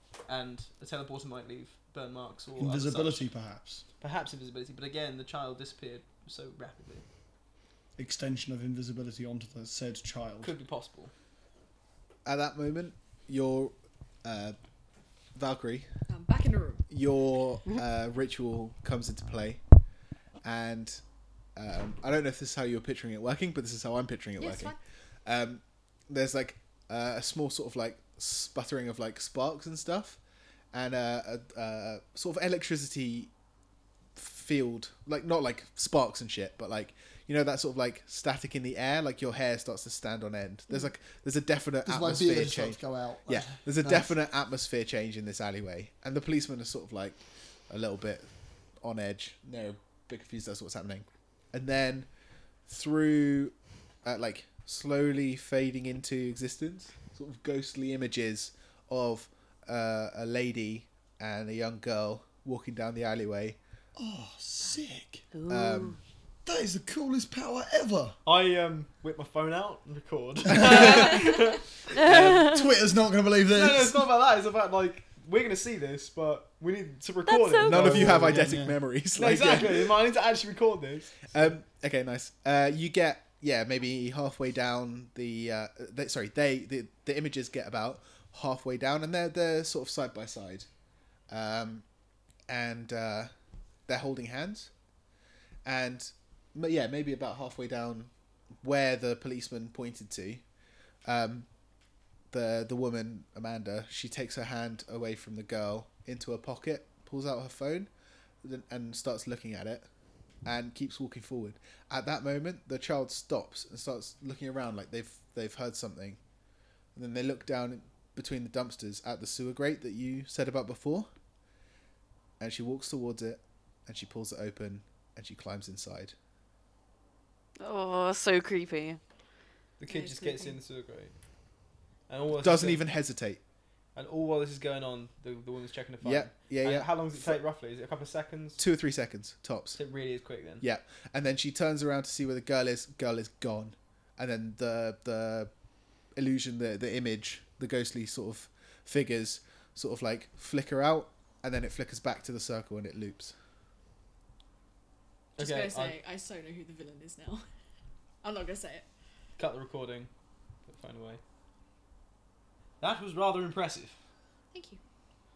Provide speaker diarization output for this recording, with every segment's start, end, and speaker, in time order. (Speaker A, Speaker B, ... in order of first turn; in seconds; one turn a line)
Speaker A: 0.3-3.2
Speaker B: 2.6-3.8
Speaker A: 4.0-7.0
Speaker B: 8.0-10.5
Speaker A: 10.4-11.1
Speaker C: 12.3-14.6
Speaker C: 15.3-15.9
Speaker D: 16.1-16.9
Speaker C: 16.9-19.6
Speaker C: 20.4-21.0
Speaker C: 21.6-24.8
Speaker D: 24.4-24.8
Speaker C: 25.3-30.2
Speaker C: 30.7-33.3
Speaker C: 34.1-47.2
Speaker B: 41.9-44.1
Speaker C: 47.7-48.3
Speaker C: 48.8-52.1
Speaker C: 52.7-63.6
Speaker B: 64.0-65.2
Speaker E: 65.3-66.0
Speaker C: 65.5-66.0
Speaker B: 66.5-68.2
Speaker A: 68.2-71.8
Speaker B: 70.5-70.9
Speaker C: 70.6-70.9
Speaker E: 72.0-72.6
Speaker B: 72.0-74.1
Speaker A: 73.5-78.5
Speaker E: 77.3-77.9
Speaker C: 77.7-80.0
Speaker B: 77.7-78.8
Speaker A: 79.2-81.5
Speaker C: 81.3-90.7
Speaker C: 91.3-91.8
Speaker C: 92.5-93.3
Speaker C: 93.9-94.7
Speaker C: 95.7-98.1
Speaker C: 98.6-100.4
Speaker C: 101.0-101.5
Speaker C: 102.3-107.9
Speaker C: 108.4-109.9
Speaker C: 110.5-116.2
Speaker C: 117.0-121.1
Speaker C: 122.4-126.2
Speaker E: 127.6-129.0
Speaker A: 129.8-131.1
Speaker D: 129.9-130.6
Speaker A: 132.1-132.8
Speaker C: 132.4-133.4
Speaker A: 133.9-138.6
Speaker C: 136.0-137.4
Speaker C: 138.6-139.8
Speaker A: 139.7-140.6
Speaker C: 140.6-145.5
Speaker C: 146.2-153.3
Speaker D: 155.4-157.5
Speaker A: 155.4-156.0
Speaker D: 158.2-158.9
Speaker A: 159.4-160.1
Speaker A: 160.7-161.2
Speaker A: 162.8-163.9
Speaker D: 164.5-164.8